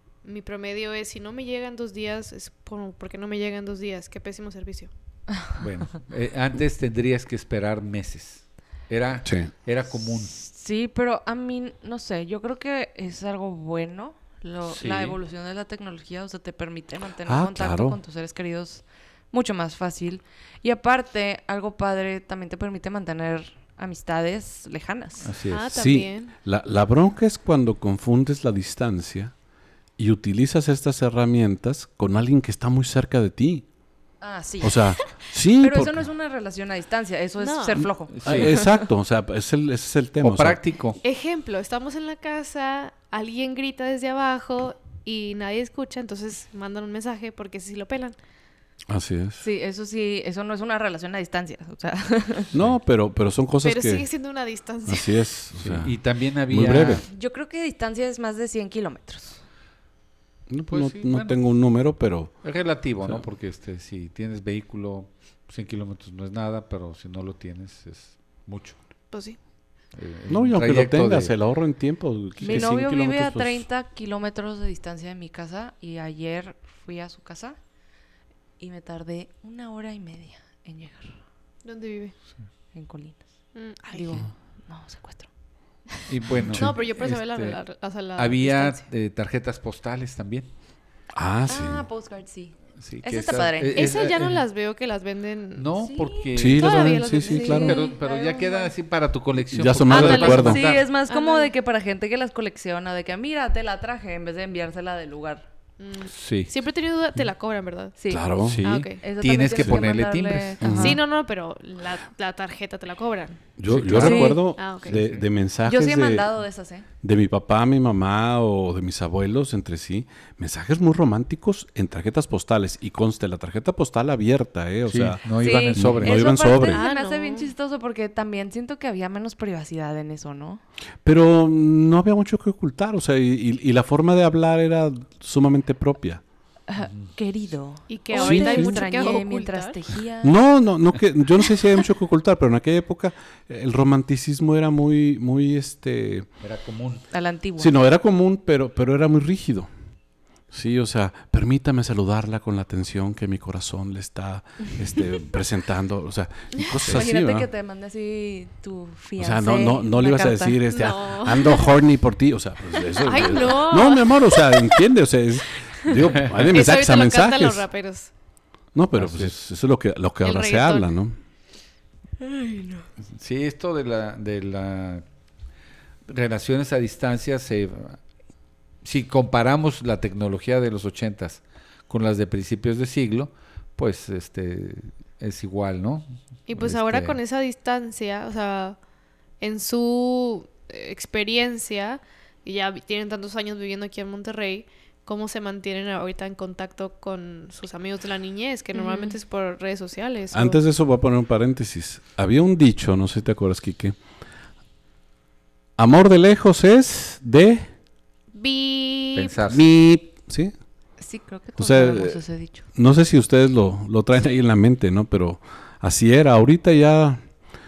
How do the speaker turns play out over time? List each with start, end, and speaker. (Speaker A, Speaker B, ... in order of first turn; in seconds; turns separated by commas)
Speaker A: 0.2-4.9, Speaker B: 5.5-10.3, Speaker C: 9.2-9.5, Speaker D: 10.3-25.3, Speaker B: 14.7-15.2, Speaker C: 17.2-18.0, Speaker B: 25.2-25.8, Speaker A: 25.5-26.3, Speaker C: 25.7-29.3, Speaker C: 30.0-33.6, Speaker D: 34.2-35.0, Speaker C: 34.6-36.0, Speaker D: 35.6-38.8, Speaker A: 37.4-37.9, Speaker B: 38.1-38.5, Speaker C: 38.2-40.6, Speaker B: 40.2-41.0, Speaker A: 41.0-48.1, Speaker C: 48.9-49.5, Speaker D: 49.4-52.5, Speaker C: 52.5-54.1, Speaker A: 53.6-55.2, Speaker C: 54.9-56.0, Speaker B: 55.6-57.0, Speaker C: 56.5-57.0, Speaker D: 57.1-59.4, Speaker C: 60.5-62.3, Speaker B: 60.7-61.4, Speaker B: 62.4-68.8, Speaker A: 69.1-69.4, Speaker B: 69.9-71.3, Speaker C: 70.3-73.6, Speaker D: 72.4-77.6, Speaker D: 78.6-81.2, Speaker A: 81.6-82.1, Speaker D: 82.7-83.2, Speaker A: 83.5-84.2, Speaker D: 83.9-85.3, Speaker B: 86.1-87.6, Speaker A: 86.5-88.8, Speaker B: 88.2-90.5, Speaker C: 91.1-91.8, Speaker D: 91.5-94.0, Speaker B: 92.8-94.4, Speaker A: 93.7-95.7, Speaker B: 95.5-100.8, Speaker D: 95.8-96.3, Speaker C: 96.3-97.8, Speaker A: 96.4-98.6, Speaker D: 97.1-98.6, Speaker C: 99.5-100.6, Speaker A: 99.9-101.5, Speaker D: 99.9-105.5, Speaker A: 105.8-107.9, Speaker B: 106.1-106.5, Speaker D: 108.0-108.3, Speaker C: 108.1-108.7, Speaker B: 108.5-110.8, Speaker A: 108.6-109.0, Speaker D: 108.9-111.0, Speaker C: 110.6-111.0, Speaker A: 110.7-113.4, Speaker C: 113.6-116.3, Speaker B: 113.7-115.2, Speaker D: 114.0-114.4, Speaker A: 114.4-115.0, Speaker D: 115.6-116.8, Speaker C: 117.0-126.8, Speaker B: 124.8-126.2, Speaker D: 125.4-130.6, Speaker A: 126.7-127.5, Speaker C: 131.0-136.2, Speaker D: 136.7-140.3, Speaker B: 136.8-137.1, Speaker A: 137.9-139.8, Speaker C: 138.1-138.8, Speaker C: 140.2-146.3, Speaker B: 146.4-147.1, Speaker D: 147.1-147.7, Speaker C: 147.6-149.7, Speaker C: 150.5-157.5, Speaker D: 156.9-160.6, Speaker C: 159.2-167.7, Speaker A: 160.7-161.7, Speaker A: 162.9-164.8, Speaker A: 165.8-168.1, Speaker C: 168.7-171.1, Speaker B: 168.9-169.3, Speaker A: 170.2-170.9, Speaker D: 172.2-172.8, Speaker B: 173.2-175.0, Speaker B: 176.1-178.0, Speaker B: 178.8-187.2, Speaker A: 186.5-188.8, Speaker A: 189.4-200.6, Speaker D: 198.7-199.2, Speaker C: 200.3-203.9, Speaker C: 205.8-207.7, Speaker A: 208.3-209.4, Speaker B: 209.1-209.7, Speaker C: 209.5-210.5, Speaker D: 211.0-212.6, Speaker C: 211.6-212.2, Speaker C: 212.7-217.2